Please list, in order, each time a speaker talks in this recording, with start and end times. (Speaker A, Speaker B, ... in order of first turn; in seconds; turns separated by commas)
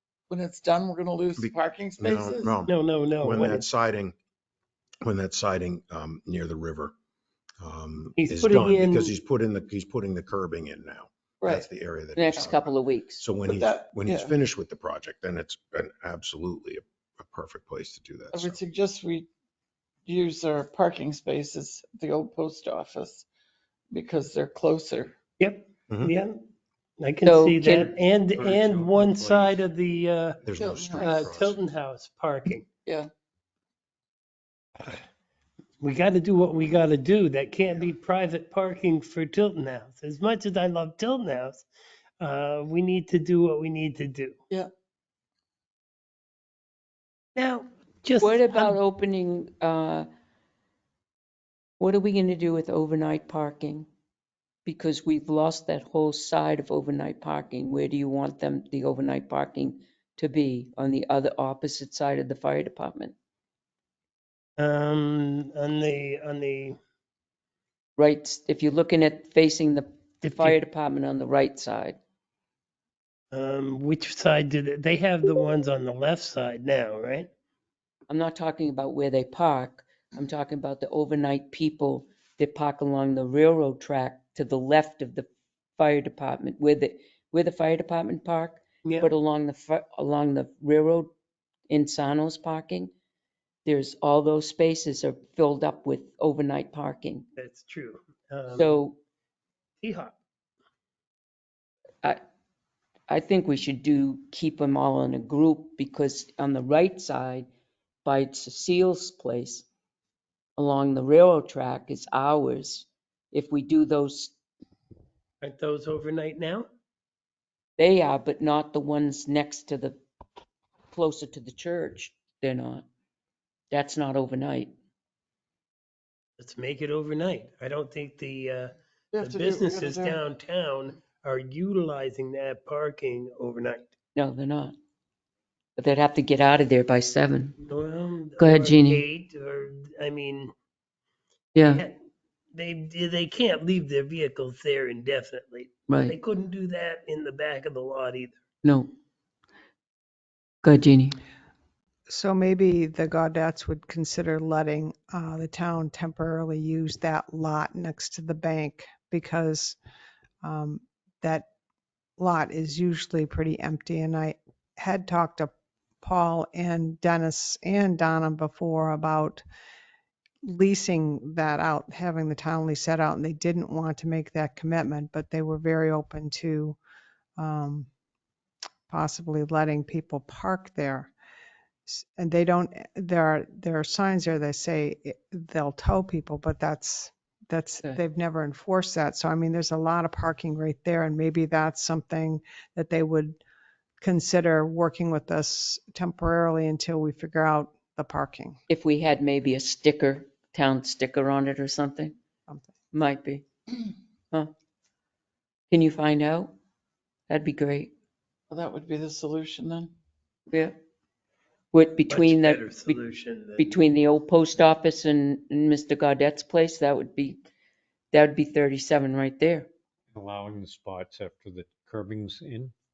Speaker A: 0.3-2.6, Speaker B: 1.4-4.2, Speaker C: 2.6-3.7, Speaker B: 5.0-6.9, Speaker B: 7.6-18.6, Speaker C: 8.2-9.1, Speaker A: 11.4-11.7, Speaker D: 12.2-13.2, Speaker A: 13.5-14.3, Speaker A: 18.3-19.3, Speaker A: 20.1-23.3, Speaker A: 23.9-25.2, Speaker C: 25.4-26.5, Speaker C: 27.0-30.4, Speaker D: 27.2-27.9, Speaker E: 27.9-29.6, Speaker B: 30.4-31.6, Speaker A: 30.6-31.3, Speaker C: 31.0-32.7, Speaker A: 32.9-33.1, Speaker C: 35.8-41.7, Speaker C: 42.2-44.4, Speaker C: 47.4-48.8, Speaker D: 48.2-50.1, Speaker D: 51.8-53.9, Speaker D: 54.6-63.1, Speaker C: 64.6-66.8, Speaker D: 68.0-72.0, Speaker C: 70.2-70.6, Speaker C: 73.3-77.3, Speaker D: 78.1-91.1, Speaker C: 88.8-89.2, Speaker D: 91.7-92.9, Speaker D: 93.7-97.2, Speaker C: 97.4-98.9, Speaker D: 98.5-99.0, Speaker C: 99.8-100.2, Speaker D: 103.1-107.5, Speaker D: 108.0-109.7, Speaker D: 110.6-114.3, Speaker C: 115.4-116.7, Speaker D: 117.8-120.0, Speaker D: 120.9-122.9, Speaker D: 123.7-124.7, Speaker C: 126.4-133.9, Speaker A: 129.1-130.2, Speaker D: 134.2-134.7, Speaker D: 135.8-137.6, Speaker C: 137.6-140.5, Speaker D: 138.4-139.1, Speaker D: 141.5-141.8, Speaker C: 141.6-142.0, Speaker C: 142.5-148.4, Speaker D: 145.9-146.2, Speaker D: 148.6-148.9, Speaker D: 150.6-151.2, Speaker F: 152.1-159.8, Speaker F: 160.4-161.5, Speaker F: 162.2-169.4, Speaker F: 170.4-176.8, Speaker F: 177.4-177.9, Speaker F: 178.9-181.1, Speaker F: 181.9-193.4, Speaker F: 194.0-198.6, Speaker D: 198.7-202.1, Speaker D: 202.9-203.4, Speaker D: 205.7-206.5, Speaker D: 207.3-207.9, Speaker A: 208.5-209.9, Speaker D: 210.5-210.8, Speaker D: 211.7-213.0, Speaker C: 212.1-213.8, Speaker D: 213.6-217.4, Speaker D: 218.1-219.7, Speaker E: 220.1-222.7